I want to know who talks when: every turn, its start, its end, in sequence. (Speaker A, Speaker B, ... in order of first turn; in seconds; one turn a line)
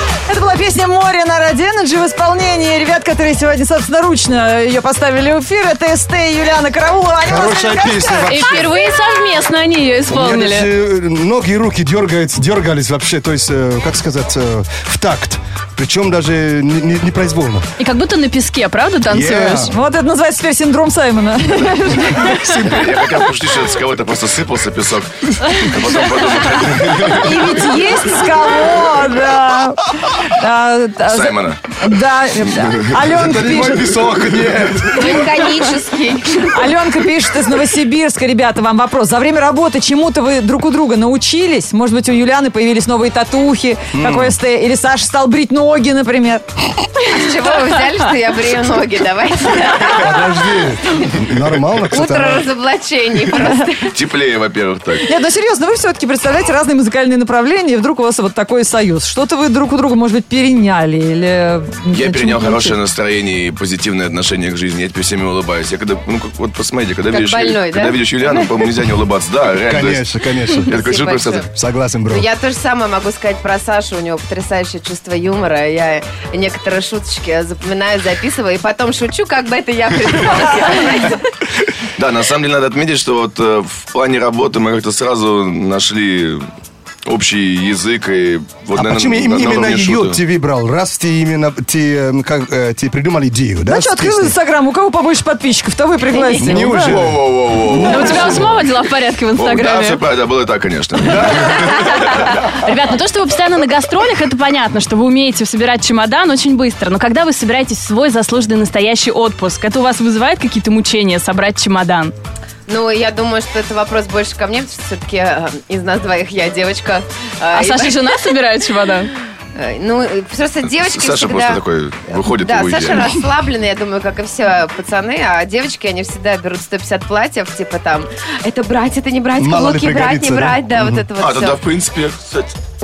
Speaker A: 0.2-8.5
Speaker B: 7.2-8.7
Speaker C: 8.3-10.7
Speaker B: 10.1-17.7
Speaker C: 17.8-19.7
Speaker B: 19.1-19.7
Speaker A: 19.6-22.8
Speaker B: 22.2-22.8
Speaker D: 22.5-27.4
Speaker A: 27.1-34.0
Speaker D: 31.1-31.6
Speaker D: 32.6-32.9
Speaker B: 33.0-35.5
Speaker E: 34.9-36.7
Speaker A: 36.5-46.4
Speaker B: 43.9-44.3
Speaker E: 47.0-51.0
Speaker B: 49.9-52.5
Speaker E: 51.9-53.9
Speaker D: 53.8-55.1
Speaker A: 55.0-62.8
Speaker D: 61.9-71.5
Speaker E: 67.1-68.7
Speaker B: 69.7-70.8
Speaker E: 70.7-71.5
Speaker B: 71.5-72.2
Speaker E: 72.1-81.2
Speaker D: 82.0-86.5
Speaker D: 87.1-90.2
Speaker B: 88.8-94.3
Speaker A: 93.7-97.0
Speaker E: 96.1-96.4
Speaker B: 96.4-98.5
Speaker D: 96.8-98.7
Speaker C: 97.8-100.0
Speaker D: 99.4-102.4
Speaker B: 101.1-101.6
Speaker C: 101.7-112.1
Speaker E: 112.7-118.1
Speaker C: 117.5-119.1
Speaker E: 119.5-131.6
Speaker D: 120.8-123.2
Speaker B: 129.4-131.1
Speaker D: 131.2-132.5